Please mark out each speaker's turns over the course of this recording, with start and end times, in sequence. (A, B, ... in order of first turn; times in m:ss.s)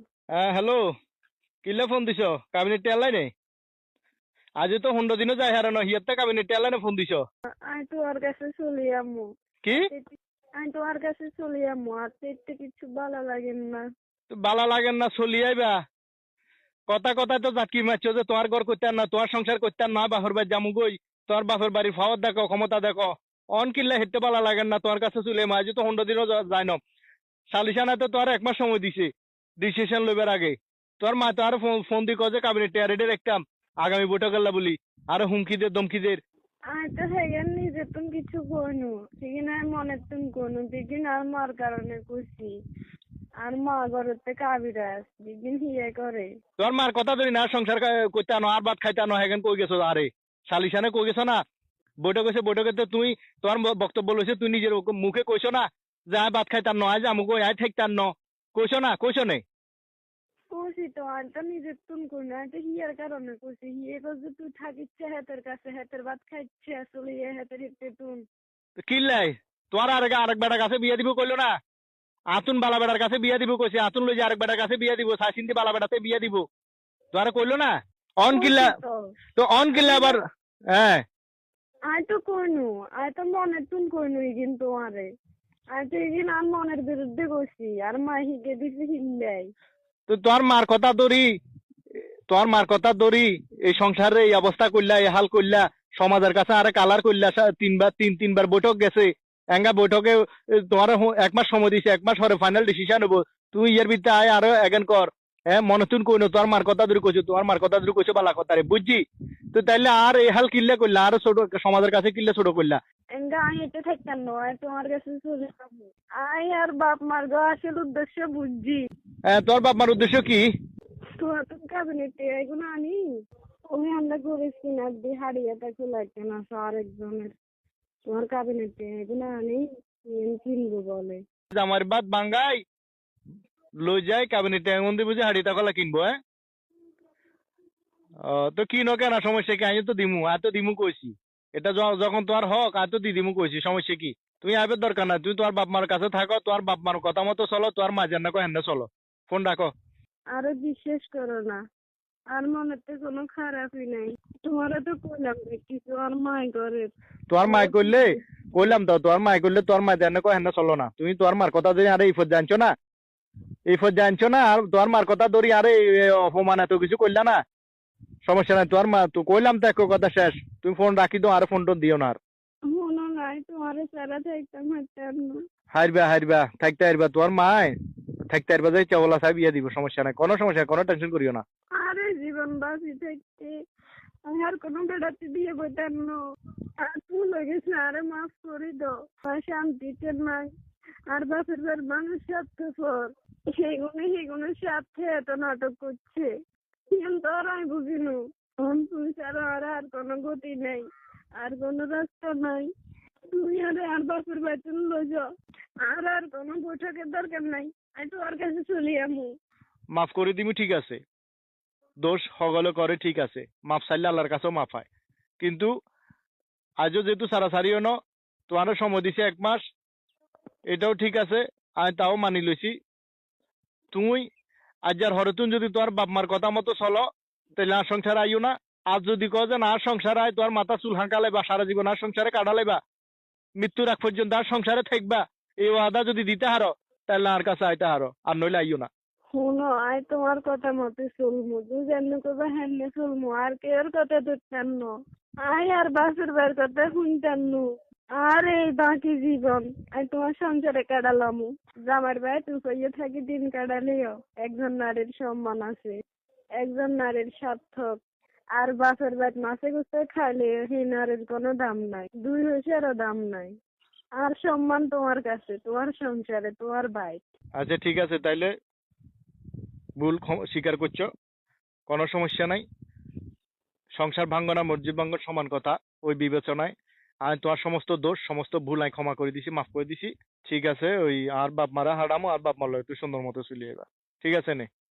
0:00.4-0:00.8 A
0:01.6-0:03.3 A
0:04.6-0:07.2 A
0:07.6-0:09.3 B
0:09.8-0:13.8 B
0:14.3-0:15.7 A
0:16.9-0:26.8 A
0:27.5-0:29.1 A
0:29.6-0:36.2 A
0:36.7-0:42.5 B
0:43.4-0:46.3 B
0:46.6-0:51.4 A
0:52.0-0:59.4 A
1:00.5-1:08.2 B
1:08.9-1:11.5 A
1:12.3-1:16.4 A
1:17.1-1:18.7 A
1:18.3-1:19.0 B
1:19.4-1:20.2 A
1:19.7-1:20.2 B
1:20.7-1:21.0 A
1:21.9-1:25.1 B
1:25.7-1:29.5 B
1:30.1-1:31.2 A
1:32.3-1:49.0 A
1:49.5-1:52.8 A
1:53.1-1:58.8 B
1:59.3-2:00.5 A
2:01.2-2:03.0 B
2:03.7-2:07.3 B
2:08.1-2:11.2 B
2:11.5-2:12.6 A
2:13.8-2:16.2 A
2:18.3-2:29.7 A
2:30.3-2:31.6 B
2:32.3-2:36.9 B
2:37.3-2:42.7 A
2:37.4-2:38.2 B
2:43.7-2:47.4 A
2:48.2-2:52.2 A
2:52.7-2:55.4 B
2:55.7-2:57.7 A
2:58.3-3:01.4 A
3:01.8-3:03.6 B
3:04.3-3:06.2 B
3:06.8-3:10.5 B
3:11.1-3:16.3 B
3:16.9-3:20.8 B
3:21.4-3:22.7 B
3:23.3-3:25.2 B
3:25.8-3:29.3 B
3:29.9-3:31.0 A
3:32.0-3:34.9 A
3:35.4-3:35.7 A
3:36.8-3:37.9 A
3:38.5-3:39.6 A
3:40.7-3:42.7 A
3:43.9-3:44.2 A
3:44.9-3:47.0 A
3:47.6-3:52.8 A
3:53.6-3:58.9 A
3:59.3-4:07.6 B
4:08.2-4:16.0 B
4:16.6-4:18.0 B
4:18.6-4:23.6 B
4:24.2-4:27.2 B
4:27.6-4:28.5 A
4:30.0-4:31.0 A
4:31.9-4:32.6 A
4:33.9-4:36.7 A
4:37.2-4:44.6 A